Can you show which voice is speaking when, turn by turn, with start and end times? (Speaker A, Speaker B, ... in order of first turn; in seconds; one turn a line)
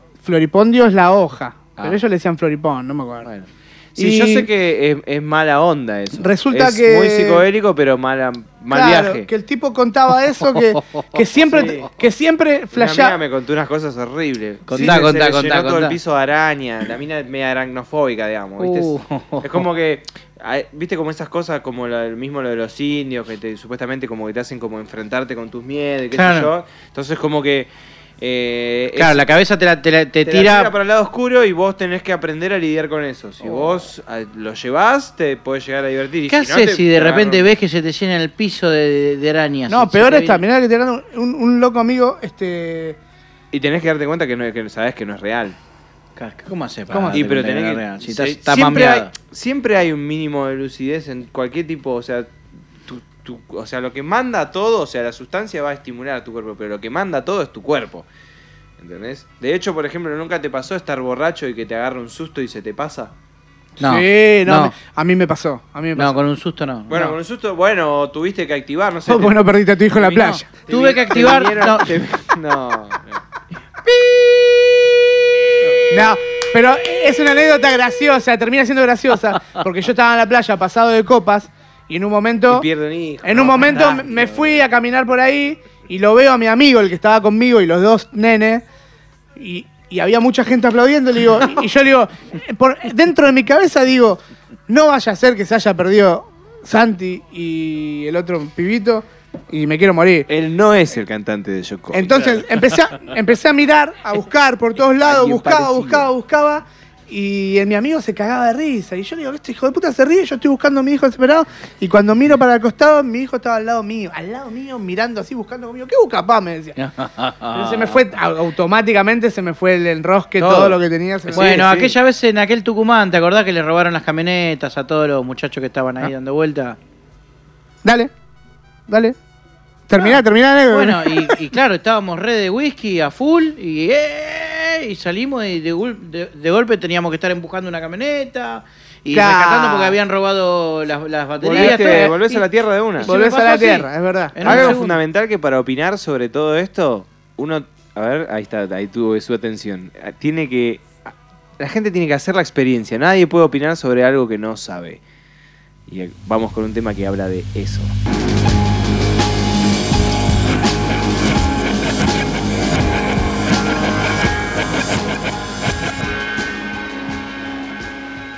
Speaker A: 0.2-3.3
Speaker B: 3.2-9.3
Speaker A: 4.0-4.5
Speaker A: 6.2-7.5
Speaker A: 8.7-13.2
Speaker B: 11.3-11.9
Speaker B: 12.7-29.2
Speaker C: 14.7-15.9
Speaker C: 18.6-19.6
Speaker C: 26.1-26.5
Speaker C: 28.9-30.7
Speaker B: 30.2-37.5
Speaker C: 36.3-40.4
Speaker A: 39.7-43.0
Speaker B: 43.5-45.6
Speaker C: 46.2-49.1
Speaker A: 46.9-47.3
Speaker B: 47.1-58.1
Speaker B: 58.8-63.1
Speaker C: 63.8-64.7
Speaker A: 63.8-66.2
Speaker C: 66.0-67.2
Speaker B: 66.9-69.3
Speaker A: 69.1-70.5
Speaker C: 70.0-71.9
Speaker B: 70.7-73.2
Speaker B: 73.9-74.1
Speaker B: 75.6-75.8
Speaker A: 75.9-82.7
Speaker B: 82.5-84.7
Speaker A: 83.2-88.6
Speaker A: 89.3-100.3
Speaker B: 100.3-102.5
Speaker A: 101.9-116.8
Speaker B: 105.0-106.1
Speaker C: 116.8-118.0
Speaker A: 117.5-121.5
Speaker C: 120.4-120.8
Speaker B: 121.3-122.0
Speaker C: 121.3-126.8
Speaker A: 127.8-128.1
Speaker A: 128.9-129.1
Speaker A: 129.9-131.3
Speaker C: 130.7-142.4
Speaker A: 139.1-140.0
Speaker B: 141.4-143.1
Speaker A: 141.5-142.2
Speaker C: 143.0-145.0
Speaker A: 143.0-144.8
Speaker B: 144.4-155.0
Speaker B: 155.9-157.9